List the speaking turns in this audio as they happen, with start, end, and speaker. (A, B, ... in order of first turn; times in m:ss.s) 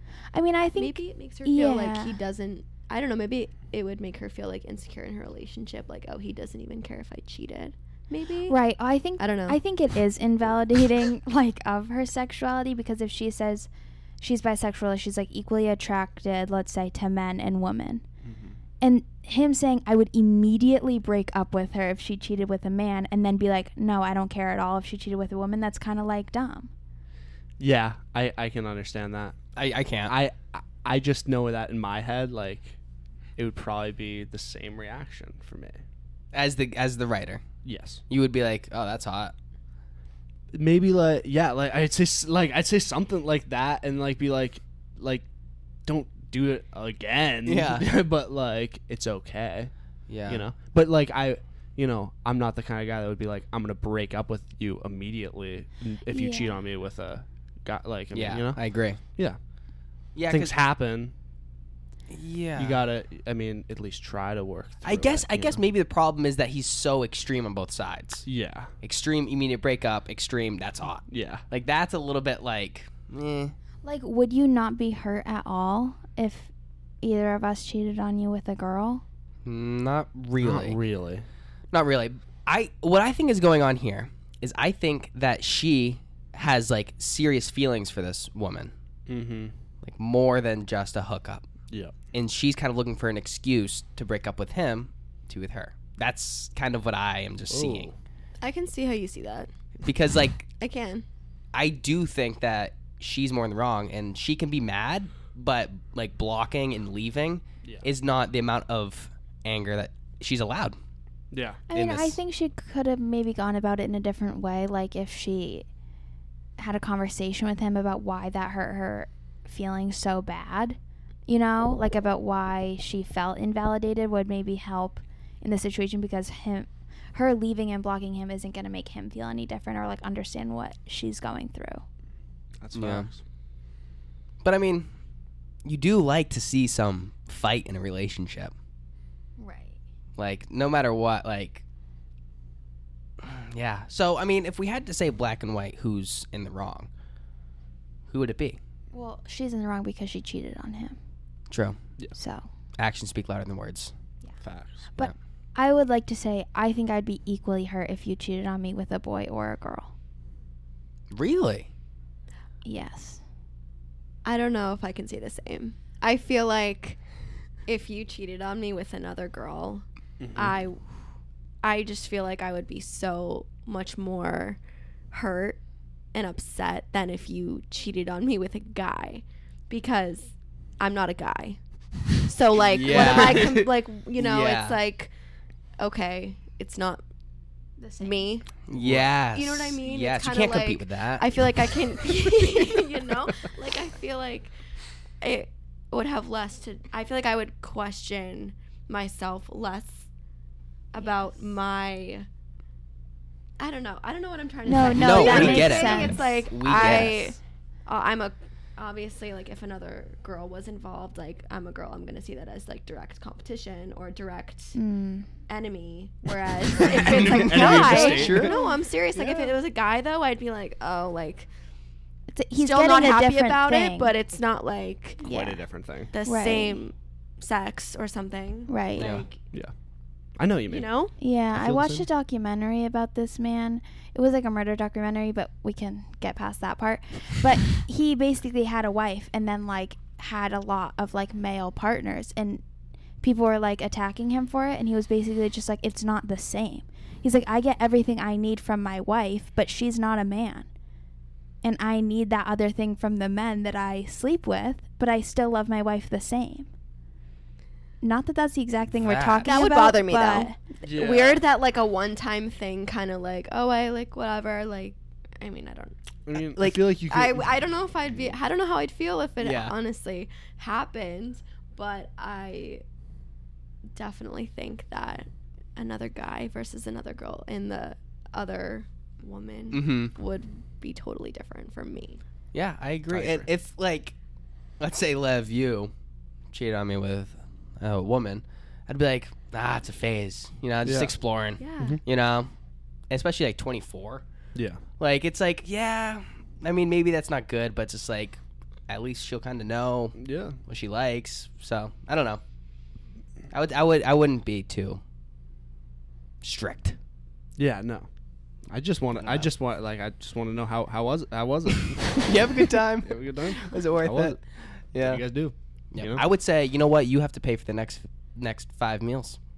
0:00.3-0:02.2 A
0:00.8-0:08.6 B
0:08.5-0:13.7 A
0:09.2-0:09.6 B
0:14.2-0:18.0 A
0:18.2-0:18.6 C
0:18.8-0:26.7 A
0:27.6-0:29.4 C
0:29.6-0:30.2 D
0:30.1-0:32.8 C
0:33.4-0:35.8 C
0:36.3-0:37.4 D
0:37.6-0:38.0 C
0:38.1-0:39.3 D
0:40.5-0:45.3 C
0:45.8-0:49.7 C
0:47.5-0:47.9 D
0:50.1-0:50.4 D
0:50.3-0:58.6 C
0:56.1-0:56.5 A
0:58.1-0:59.0 D
1:00.2-1:00.6 D
1:00.3-1:01.1 C
1:02.1-1:02.8 D
1:02.6-1:05.6 C
1:04.8-1:08.2 D
1:08.2-1:08.7 C
1:08.8-1:13.6 D
1:11.1-1:11.4 C
1:13.8-1:16.5 A
1:17.0-1:19.0 A
1:19.4-1:20.8 D
1:20.4-1:21.3 C
1:21.7-1:28.7 D
1:29.1-1:29.5 C
1:29.8-1:31.5 D
1:31.7-1:32.0 C
1:32.1-1:37.9 D
1:37.5-1:38.0 C
1:38.4-1:39.5 B
1:39.8-1:40.5 D
1:40.6-1:41.0 B
1:41.5-1:50.8 D
1:51.3-1:51.6 C
1:51.7-1:55.7 A
1:51.7-1:52.2 D
1:56.6-2:11.8 A
2:12.6-2:13.2 C
2:12.7-2:13.1 D
2:14.4-2:14.9 D
2:15.6-2:18.5 D
2:19.4-2:19.8 A
2:20.2-2:21.6 D
2:23.2-2:26.9 D
2:28.1-2:28.6 D
2:28.9-2:31.0 A
2:31.5-2:31.8 D
2:32.2-2:32.5 A
2:32.8-2:33.9 D
2:34.4-2:34.9 C
2:35.0-2:39.9 A
2:41.1-2:41.7 D
2:42.6-2:43.2 A
2:44.2-2:47.0 B
2:47.7-2:49.8 B
2:50.2-2:50.6 C
2:50.4-2:50.8 B
2:51.6-2:54.6 B
2:55.1-2:55.6 B
2:56.1-3:01.6 B
3:02.2-3:05.1 B
3:02.7-3:04.8 D
3:02.9-3:03.6 C
3:05.8-3:07.0 B
3:07.8-3:08.3 A
3:08.0-3:08.5 B
3:08.7-3:11.3 D
3:08.7-3:09.2 C
3:09.3-3:14.5 B
3:15.2-3:20.1 B
3:20.9-3:22.3 B
3:21.0-3:21.3 A
3:23.6-3:34.8 B
3:24.7-3:27.2 A
3:24.9-3:27.3 D
3:34.8-3:35.3 A
3:35.5-3:41.5 B
3:36.8-3:38.6 D
3:37.0-3:38.5 C
3:39.2-3:39.5 D
3:42.3-3:44.1 A
3:42.6-3:45.3 B
3:45.2-3:45.6 A
3:45.2-3:46.1 C
3:46.1-3:49.4 B
3:46.2-3:46.8 A
3:48.7-3:49.1 A
3:49.0-3:49.2 D
3:50.4-3:50.9 C
3:50.7-3:51.1 B
3:51.2-4:02.6 A
3:51.5-3:52.1 C
4:03.2-4:10.7 A
4:11.6-4:16.7 A
4:18.0-4:20.6 A
4:19.0-4:19.5 D
4:19.4-4:26.0 B
4:20.8-4:21.4 C
4:26.3-4:27.6 C
4:26.6-4:26.8 D
4:27.0-4:32.8 B
4:29.4-4:29.7 D
4:33.9-4:42.2 B
4:39.7-4:40.1 D
4:42.5-4:44.2 D
4:43.1-4:43.5 C
4:44.8-4:45.9 D
4:46.5-4:52.5 D
4:50.8-4:51.2 C
4:51.6-4:52.0 B
4:53.1-4:54.2 D
4:54.6-4:54.8 C
4:55.0-5:02.4 D
5:00.2-5:00.6 C
5:03.5-5:05.0 D
5:06.4-5:07.0 D
5:07.6-5:08.1 C
5:08.7-5:14.4 C
5:09.2-5:09.5 D
5:12.1-5:14.4 D
5:14.9-5:15.2 D
5:15.0-5:16.2 C
5:15.9-5:19.4 D